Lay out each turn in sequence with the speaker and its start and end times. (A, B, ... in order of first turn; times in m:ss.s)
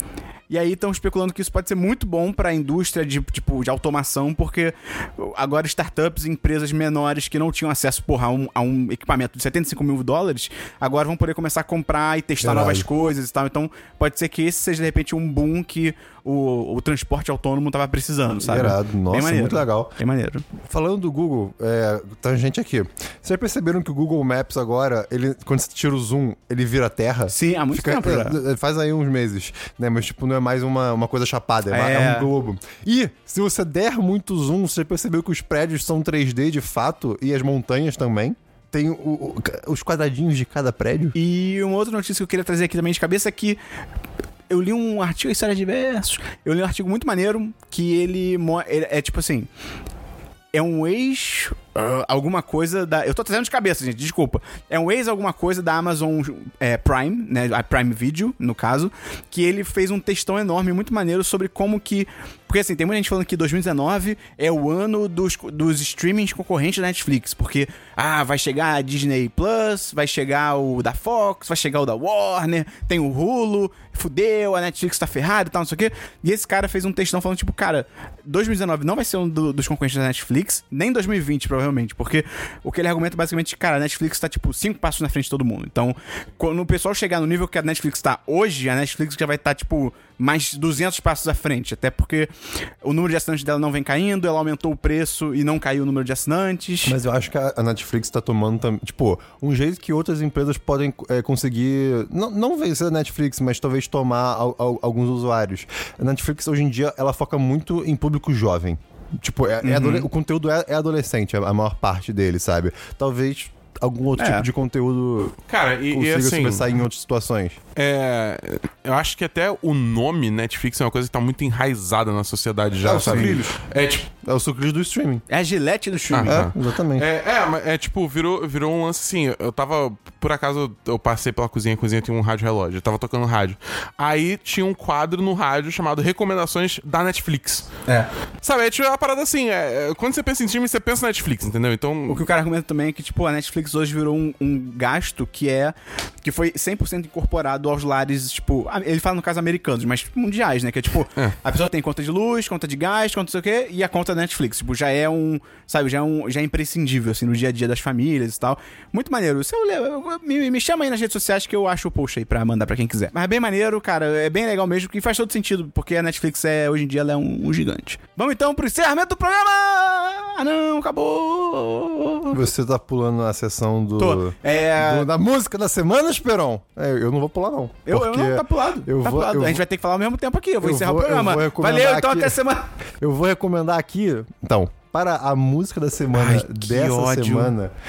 0:00.5-0:20.4 A
0:12.4-0:12.9 B
0:18.4-0:19.9 B
0:20.6-0:41.2 B
0:27.3-0:28.4 A
0:31.7-0:32.3 A
0:41.1-0:43.6 A
0:44.5-0:49.5 A
0:50.5-1:32.3 A
1:32.8-1:37.0 A
1:36.8-1:55.4 B
1:49.6-1:50.1 A
1:54.2-1:54.5 A
1:55.5-1:56.7 C
1:55.9-1:57.6 B
1:57.8-2:04.1 C
2:02.8-2:03.6 B
2:03.0-2:03.4 A
2:04.2-2:05.2 B
2:05.3-2:06.4 A
2:06.1-2:17.7 C
2:06.2-2:07.1 B
2:18.4-2:22.2 C
2:22.1-2:52.4 A
2:52.3-2:59.6 B
2:54.0-2:55.1 A
2:57.8-3:02.7 A
3:00.6-3:02.4 B
3:03.0-3:07.7 B
3:06.1-3:07.5 A